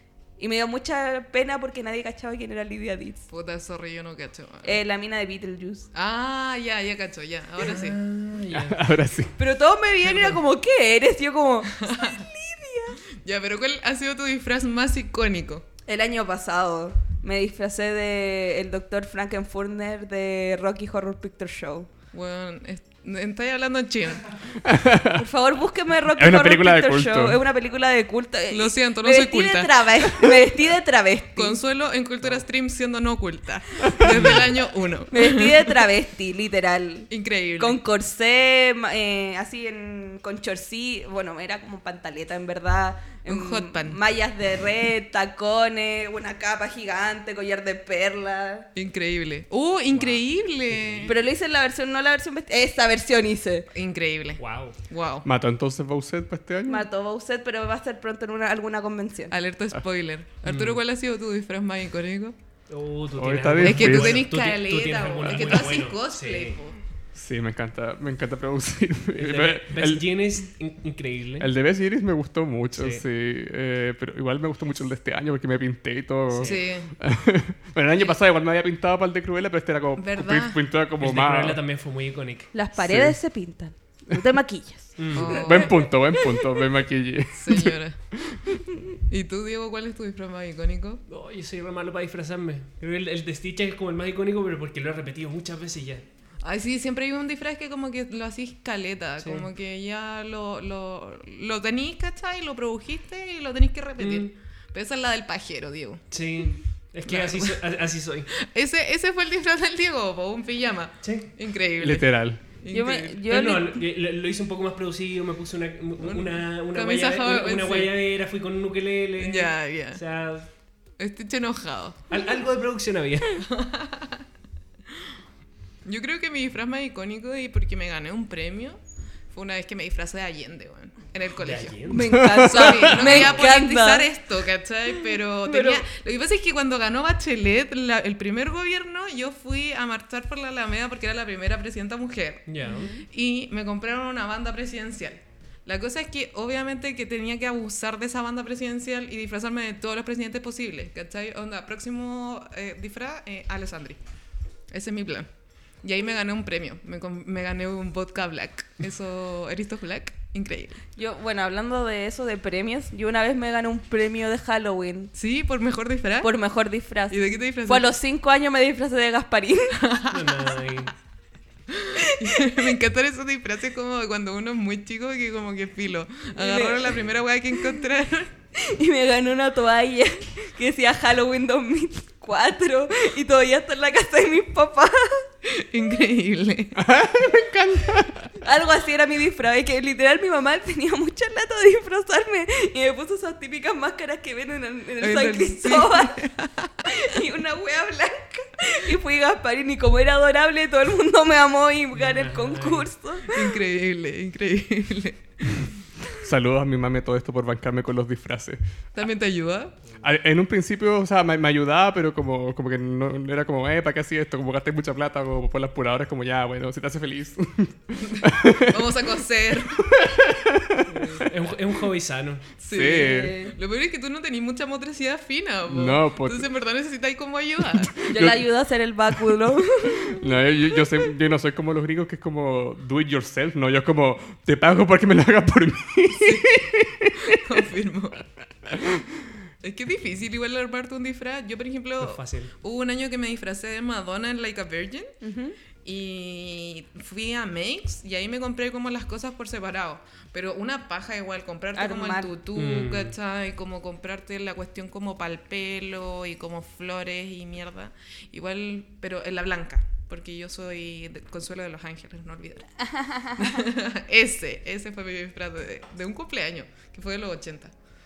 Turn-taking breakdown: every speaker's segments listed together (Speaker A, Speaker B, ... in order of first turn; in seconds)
Speaker A: 0.4-3.2, 4.6-5.9, 9.4-13.0, 15.9-21.9, 25.1-31.6, 35.1-48.7, 51.0-53.7, 56.7-59.3, 82.5-86.3, 112.7-113.8, 131.9-134.1, 135.5-135.8, 142.6-143.0, 160.9-165.1, 166.2-169.8, 172.0-172.7, 176.3-177.0, 178.6-185.2, 188.4-196.3, 196.8-203.4, 222.9-223.5, 228.1-230.2, 245.2-245.6, 251.7-252.3, 262.9-263.6
Speaker B: 3.3-4.8, 5.9-8.0, 11.8-12.2, 13.2-15.6, 22.1-24.4, 28.5-30.3, 31.4-35.8, 37.1-37.8, 43.2-44.0, 48.7-51.1, 53.7-55.2, 59.3-62.3, 63.6-66.8, 76.4-76.9, 80.0-80.6, 85.1-85.8, 87.3-88.0, 89.1-91.0, 96.4-106.5, 107.0-107.7, 108.3-113.2, 116.0-118.0, 119.2-120.0, 121.0-122.1, 123.5-124.2, 125.8-128.8, 129.3-131.8, 132.3-154.0, 154.7-155.3, 155.8-160.8, 165.2-166.3, 167.1-167.9, 169.8-170.6, 171.7-178.3, 185.5-186.8, 195.0-196.7, 203.3-205.7, 208.9-209.7, 218.0-219.9, 222.6-228.0, 236.1-236.6, 237.2-238.2, 239.6-245.1, 245.8-262.7, 263.3-267.7
Speaker C: 7.6-8.9, 10.0-10.4, 34.1-34.4, 49.9-51.1, 54.4-54.8, 60.5-60.8, 62.7-66.6, 69.2-71.5, 72.8-73.0, 76.3-76.7, 81.0-82.5, 85.0-85.5, 91.1-96.0, 99.2-99.5, 104.0-104.3, 106.1-108.3, 111.0-111.3, 113.3-120.5, 122.1-123.5, 131.4-132.2, 133.0-133.4, 142.5-142.9, 170.1-170.9, 201.9-202.9, 220.9-222.4, 242.0-242.5, 252.5-253.2
Speaker D: 8.5-9.3, 24.6-25.2, 26.1-27.4, 55.2-56.9, 63.1-64.3, 67.1-70.1, 71.4-81.6, 82.8-83.2, 85.2-88.4, 111.8-112.4, 132.2-132.9, 186.8-188.3, 206.2-208.6, 210.0-218.8, 219.8-221.2, 222.7-223.3, 225.7-226.5, 228.0-228.4, 230.1-237.4, 238.7-239.0